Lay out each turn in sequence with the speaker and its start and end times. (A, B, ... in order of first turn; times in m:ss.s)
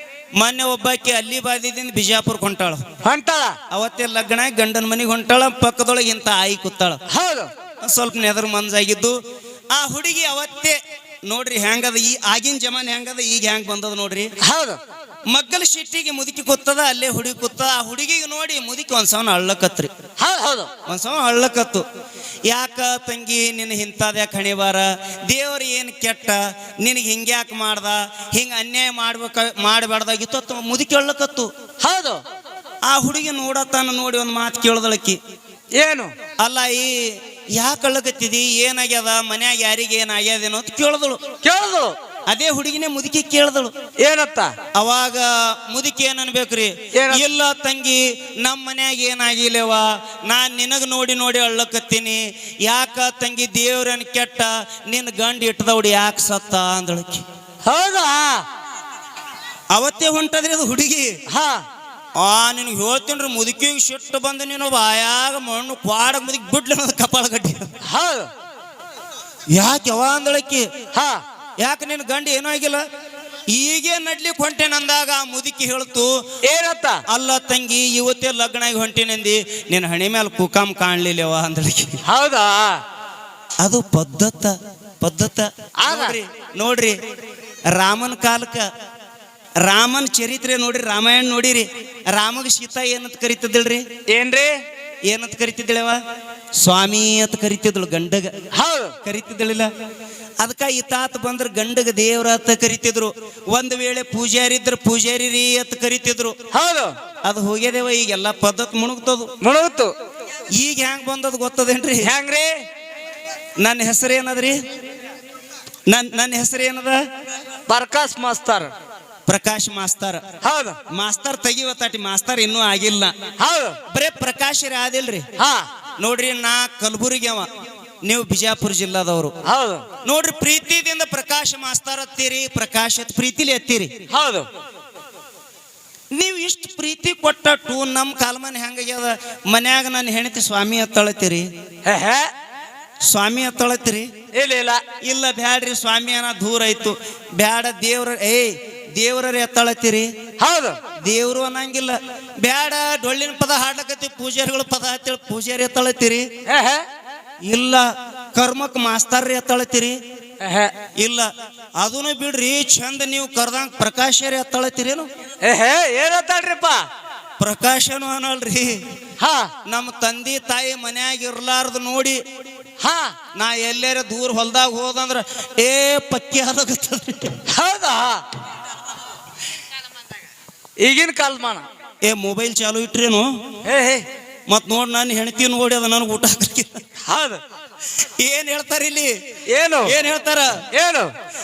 0:00.4-0:02.8 A
0:03.0-0:03.6 B
0:03.7-0:07.0 A
0:07.1-0:07.5 B
0:07.8-0:09.2 A
0:09.7-0:14.3 A
0:14.4-0:14.8 B
0:15.3-0:19.9 A
0:20.2-0:20.7 B
0:20.9-0:21.8 A
0:22.5-0:31.5 A
0:31.8-0:32.2 B
0:32.9-0:35.2 A
0:35.8-0:36.1 B
0:36.4-0:41.2 A
0:41.4-0:42.0 B
0:42.3-0:43.7 A
0:44.0-0:44.5 B
0:44.7-0:57.2 A
0:46.9-0:47.2 B
0:57.6-0:58.4 B
0:59.7-1:01.2 A
1:01.3-1:01.6 B
1:02.2-1:07.7 A
1:07.8-1:08.3 B
1:09.5-1:10.7 A
1:10.9-1:11.2 B
1:11.6-1:12.8 A
1:13.5-1:16.2 A
1:16.4-1:17.0 B
1:17.1-1:22.0 A
1:22.1-1:22.8 B
1:23.6-1:27.0 A
1:25.8-1:26.2 B
1:27.7-1:28.7 A
1:29.6-1:33.8 A
1:34.1-1:34.6 B
1:35.1-1:36.0 A
1:36.6-1:38.3 A
1:38.5-1:38.9 B
1:39.0-1:39.7 A
1:40.4-1:46.4 A
1:46.5-1:47.0 B
1:47.2-1:49.3 A
1:49.4-1:49.9 B
1:50.5-1:52.1 A
1:52.0-1:52.6 B
1:53.6-1:54.6 A
1:55.9-1:57.0 A
1:57.7-1:58.7 B
1:59.3-2:00.2 A
2:00.4-2:00.8 B
2:00.9-2:03.1 A
2:03.4-2:03.8 B
2:03.9-2:05.2 A
2:05.4-2:05.7 B
2:06.0-2:07.5 A
2:08.0-2:09.3 A
2:09.4-2:09.8 B
2:10.0-2:13.9 A
2:14.1-2:14.5 B
2:16.1-2:21.5 A
2:21.8-2:22.3 B
2:23.0-2:24.1 A
2:24.3-2:24.8 B
2:25.0-2:30.1 A
2:30.4-2:30.8 B
2:31.0-2:36.3 A
2:36.4-2:36.9 B
2:37.4-2:40.0 A
2:40.4-2:40.7 B
2:41.0-2:45.1 A
2:45.4-2:46.9 B
2:47.4-2:48.8 A
2:49.2-2:49.5 B
2:49.6-2:52.2 A
2:52.8-2:53.1 B
2:53.3-2:57.4 A
2:57.5-2:58.2 B
3:00.8-3:01.7 B
3:02.0-3:03.3 A
3:03.6-3:04.1 B
3:04.5-3:06.7 A
3:07.0-3:07.4 B
3:08.2-3:09.1 A
3:09.5-3:10.0 B
3:09.8-3:10.6 A
3:10.7-3:11.1 B